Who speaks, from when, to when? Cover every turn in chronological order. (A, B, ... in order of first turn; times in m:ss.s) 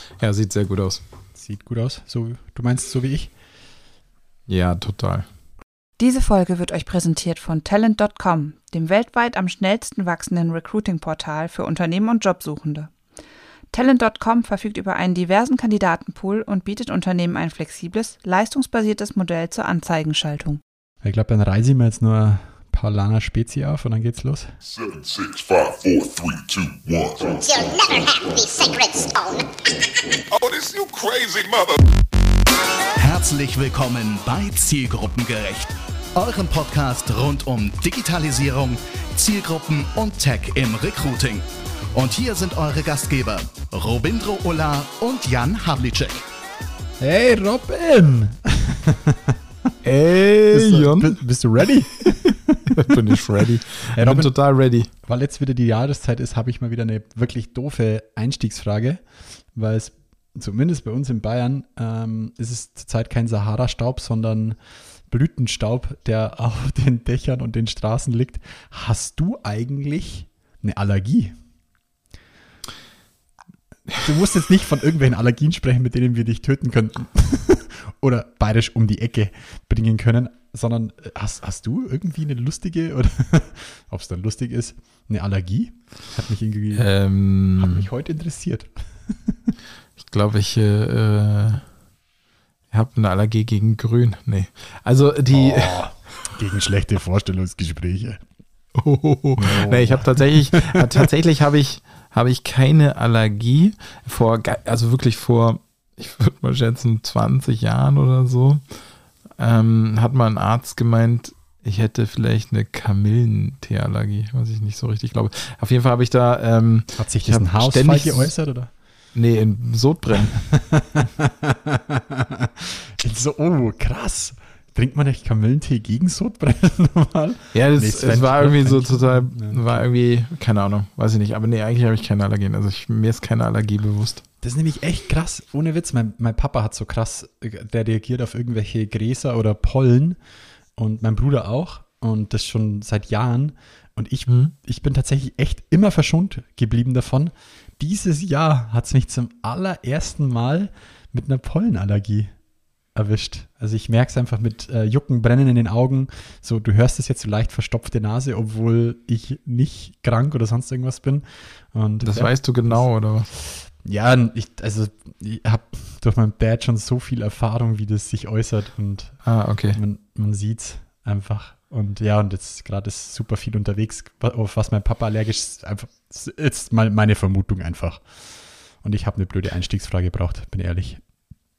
0:00.2-0:01.0 A
0:01.4-0:03.3 B
0:04.5-0:05.2 A
0:06.0-0:12.9 C
0:13.7-0:20.6 C
0:21.0-0:24.5 B
0:24.6-0:27.7 D
0:27.3-0:29.6 E
0:30.3-0:31.8 D
0:33.0-0:46.2 F
0:47.0-0:49.4 B
0:49.8-0:51.2 A
0:50.5-0:53.1 B
0:52.7-0:54.9 A
0:54.0-0:54.3 B
0:55.0-1:04.6 B
1:05.1-1:11.4 B
1:13.9-1:26.9 B
1:26.7-1:27.8 A
1:27.6-1:29.5 B
1:30.0-1:31.6 A
1:32.7-1:35.8 A
1:35.3-1:38.2 B
1:38.7-1:48.6 A
1:39.4-1:41.0 B
1:49.4-1:58.3 A
1:57.0-1:58.7 B
1:59.1-2:00.4 A
2:00.3-2:09.8 B
2:07.5-2:14.2 A
2:14.4-2:20.2 B
2:20.8-2:32.3 B
2:32.9-2:58.1 B
2:42.0-2:43.3 A
2:49.2-2:49.8 A
2:58.8-3:01.0 B